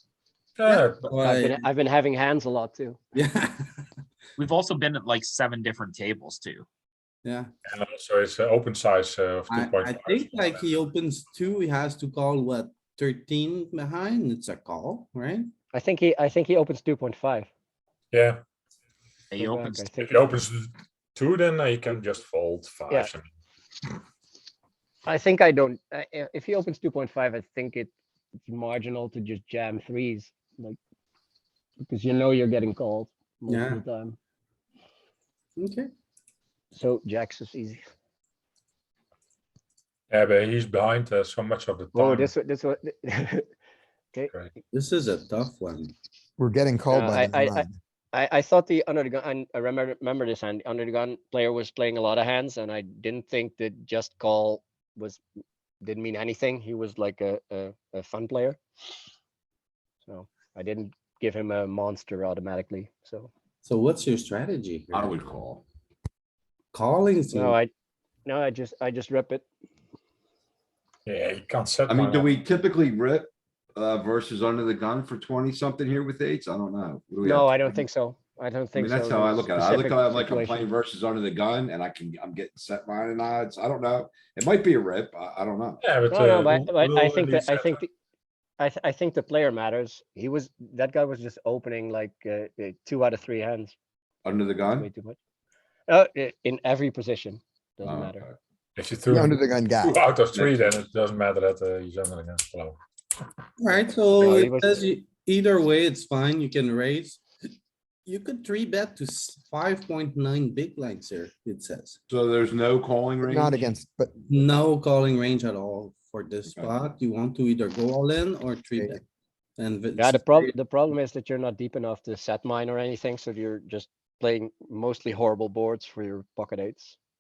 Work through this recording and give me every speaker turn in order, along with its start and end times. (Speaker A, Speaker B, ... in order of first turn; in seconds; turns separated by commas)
Speaker A: 0.6-1.1, Speaker B: 0.7-1.7, Speaker C: 1.2-3.0, Speaker B: 3.1-3.9, Speaker D: 4.4-6.7, Speaker A: 7.7-10.8, Speaker B: 9.5-15.5, Speaker C: 15.7-17.5, Speaker A: 18.1-18.4, Speaker D: 19.3-19.9, Speaker C: 19.4-20.3, Speaker A: 20.0-23.3, Speaker C: 25.1-27.9, Speaker C: 28.4-30.8, Speaker C: 31.8-34.2, Speaker B: 33.5-33.8, Speaker B: 35.6-35.9, Speaker C: 36.7-37.8, Speaker A: 40.1-42.3, Speaker C: 41.9-43.5, Speaker B: 44.7-45.9, Speaker E: 46.4-47.8, Speaker C: 46.9-55.2, Speaker C: 55.8-58.6, Speaker C: 60.1-63.3, Speaker B: 63.6-65.2, Speaker F: 64.9-65.6, Speaker B: 66.7-67.6, Speaker C: 67.3-67.7, Speaker C: 68.2-69.5, Speaker A: 71.1-72.4, Speaker F: 71.9-77.8, Speaker C: 77.2-80.6, Speaker F: 78.7-85.8, Speaker A: 85.8-87.8, Speaker C: 86.1-87.9, Speaker C: 88.6-93.8, Speaker F: 94.2-94.9, Speaker C: 94.8-95.2, Speaker C: 95.9-98.2, Speaker F: 97.8-98.3, Speaker A: 98.8-102.8, Speaker E: 99.1-100.0, Speaker F: 100.3-100.9, Speaker B: 103.6-107.2, Speaker C: 104.2-104.9, Speaker B: 108.1-112.0, Speaker F: 112.1-113.7, Speaker E: 113.2-114.2, Speaker B: 114.3-119.0, Speaker B: 119.6-120.5, Speaker C: 120.0-127.0